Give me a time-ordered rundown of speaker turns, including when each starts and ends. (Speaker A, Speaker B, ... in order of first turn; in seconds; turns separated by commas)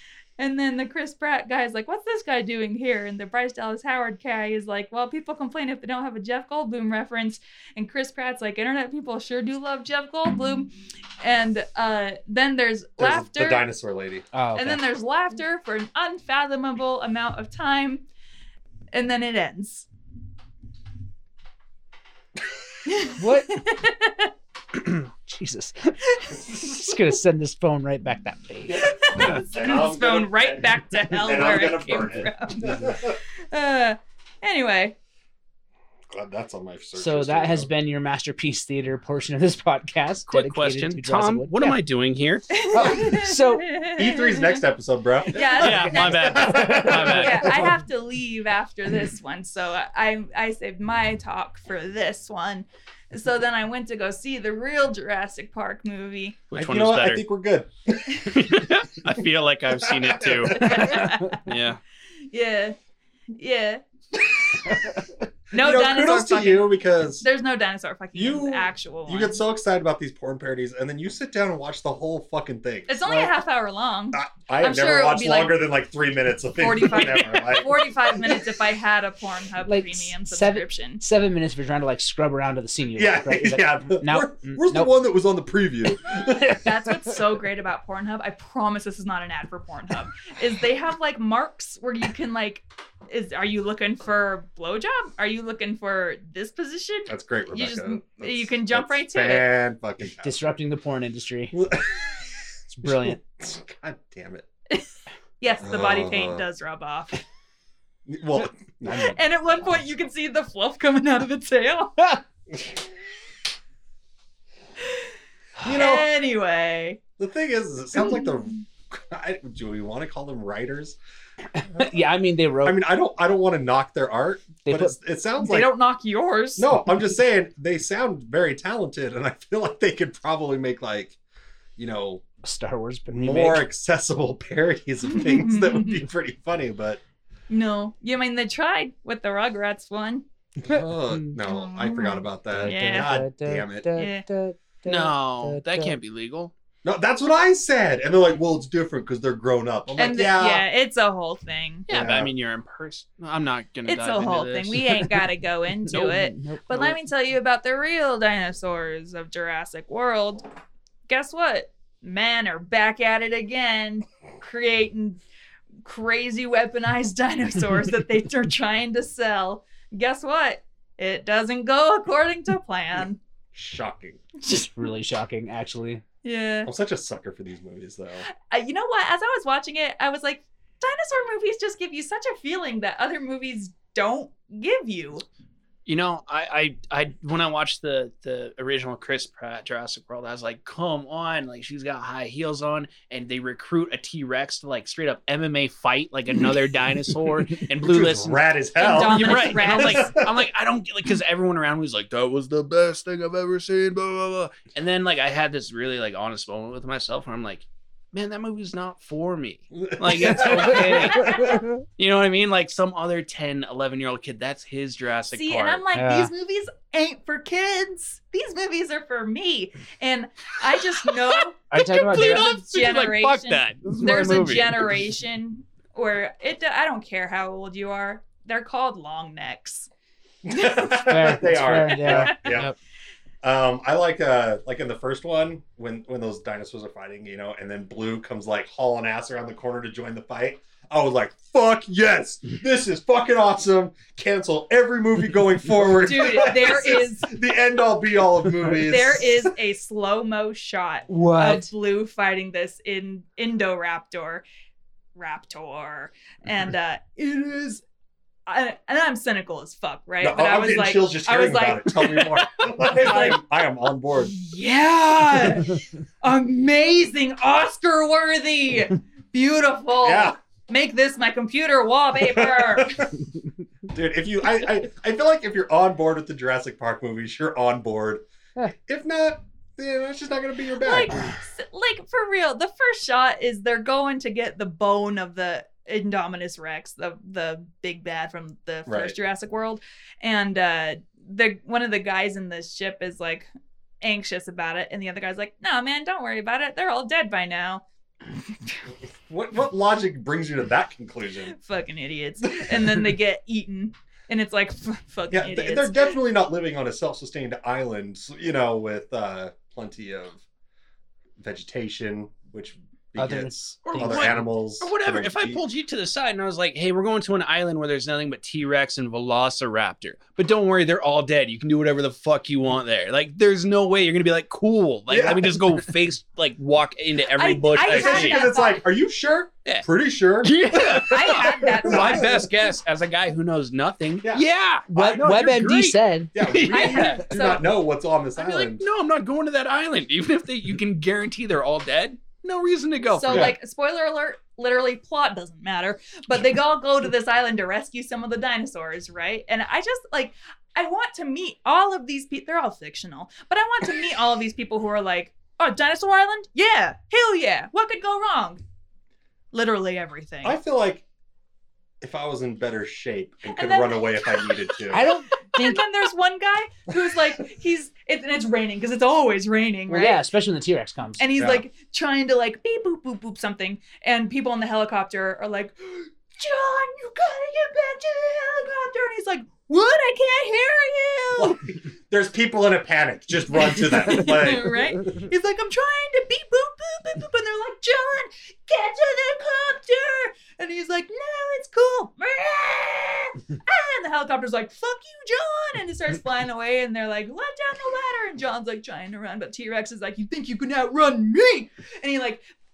Speaker A: 0.4-13.6, Speaker B: 13.0-14.2, Speaker C: 14.3-14.8, Speaker A: 14.5-18.0, Speaker A: 18.9-19.9, Speaker A: 22.9-24.3, Speaker C: 23.2-23.5, Speaker C: 24.8-28.8, Speaker B: 28.7-33.2, Speaker A: 28.8-34.9, Speaker B: 36.1-37.7, Speaker C: 37.0-41.8, Speaker D: 40.3-42.5, Speaker A: 42.5-44.6, Speaker C: 42.7-43.7, Speaker B: 44.0-47.8, Speaker A: 45.3-56.4, Speaker D: 45.6-47.7, Speaker C: 46.3-47.2, Speaker D: 56.5-57.2, Speaker B: 56.5-58.4, Speaker D: 58.3-61.8, Speaker B: 59.8-60.8, Speaker A: 60.5-61.4, Speaker A: 62.3-62.8, Speaker A: 63.3-63.8, Speaker B: 65.5-67.2, Speaker A: 65.5-69.4, Speaker B: 68.1-73.3, Speaker A: 72.9-75.5, Speaker B: 74.1-78.5, Speaker A: 76.6-81.0, Speaker C: 79.6-84.9, Speaker B: 83.0-86.6, Speaker A: 86.5-99.5, Speaker B: 97.1-100.3, Speaker C: 100.2-101.6, Speaker B: 101.5-102.2, Speaker C: 102.7-103.2, Speaker B: 102.8-104.5, Speaker A: 105.4-107.2, Speaker B: 105.6-106.4, Speaker B: 108.1-109.2, Speaker C: 108.8-109.2, Speaker A: 109.0-112.1, Speaker B: 115.6-116.1, Speaker A: 115.6-117.0, Speaker B: 117.2-121.0, Speaker A: 118.0-118.3, Speaker C: 121.5-122.8, Speaker B: 122.6-125.7, Speaker C: 124.6-125.0, Speaker A: 125.4-126.7, Speaker B: 126.6-131.2, Speaker B: 131.8-132.2, Speaker C: 132.4-133.6, Speaker B: 133.1-137.0, Speaker A: 135.1-136.0, Speaker A: 137.5-140.2, Speaker B: 140.6-143.9, Speaker C: 140.7-141.4, Speaker A: 141.4-143.2, Speaker C: 142.5-145.9, Speaker A: 143.9-144.2, Speaker D: 144.8-146.5, Speaker B: 146.8-150.7, Speaker A: 150.0-151.9, Speaker D: 151.9-155.0, Speaker B: 151.9-152.3, Speaker A: 153.8-160.4, Speaker C: 155.9-157.0, Speaker A: 161.1-165.2, Speaker A: 165.8-173.2, Speaker B: 173.5-174.2, Speaker A: 174.4-174.7, Speaker C: 174.5-176.0, Speaker A: 176.2-176.7, Speaker B: 176.6-178.3, Speaker A: 178.4-185.2, Speaker D: 185.8-215.8, Speaker B: 197.8-200.4, Speaker A: 198.8-200.2, Speaker B: 209.7-211.2, Speaker C: 210.3-211.8, Speaker A: 211.2-211.5, Speaker A: 215.3-229.9, Speaker C: 215.9-216.3, Speaker C: 221.7-222.5, Speaker D: 221.7-225.0, Speaker B: 230.4-232.7, Speaker C: 231.0-232.8, Speaker A: 231.9-232.5, Speaker B: 233.4-249.5, Speaker A: 246.0-247.4, Speaker A: 248.8-254.4, Speaker C: 251.1-251.7, Speaker A: 255.1-257.8, Speaker A: 258.5-263.4, Speaker B: 260.2-264.4, Speaker A: 264.2-273.0, Speaker B: 270.0-270.4, Speaker B: 272.2-273.1, Speaker B: 273.9-281.3, Speaker A: 280.8-293.5, Speaker B: 288.9-289.1, Speaker A: 294.0-298.9, Speaker B: 299.0-301.6, Speaker A: 301.5-306.1, Speaker B: 302.5-303.1, Speaker B: 305.3-310.4, Speaker B: 311.4-315.6, Speaker C: 313.2-314.5, Speaker D: 313.8-328.4, Speaker B: 325.1-325.7, Speaker A: 327.4-328.8, Speaker B: 327.8-332.5, Speaker D: 330.4-337.5, Speaker A: 331.0-332.3, Speaker B: 334.2-335.3, Speaker C: 334.9-336.3, Speaker B: 336.3-338.8, Speaker A: 336.7-337.7, Speaker D: 338.4-343.5, Speaker A: 343.1-358.6, Speaker B: 343.3-343.6, Speaker A: 359.5-360.6, Speaker B: 360.4-361.0, Speaker B: 362.0-365.1, Speaker A: 363.5-364.7, Speaker C: 364.9-365.8, Speaker A: 365.5-370.2, Speaker C: 369.9-371.2, Speaker A: 371.2-381.6, Speaker B: 371.4-371.6, Speaker B: 381.3-385.0, Speaker A: 383.6-402.4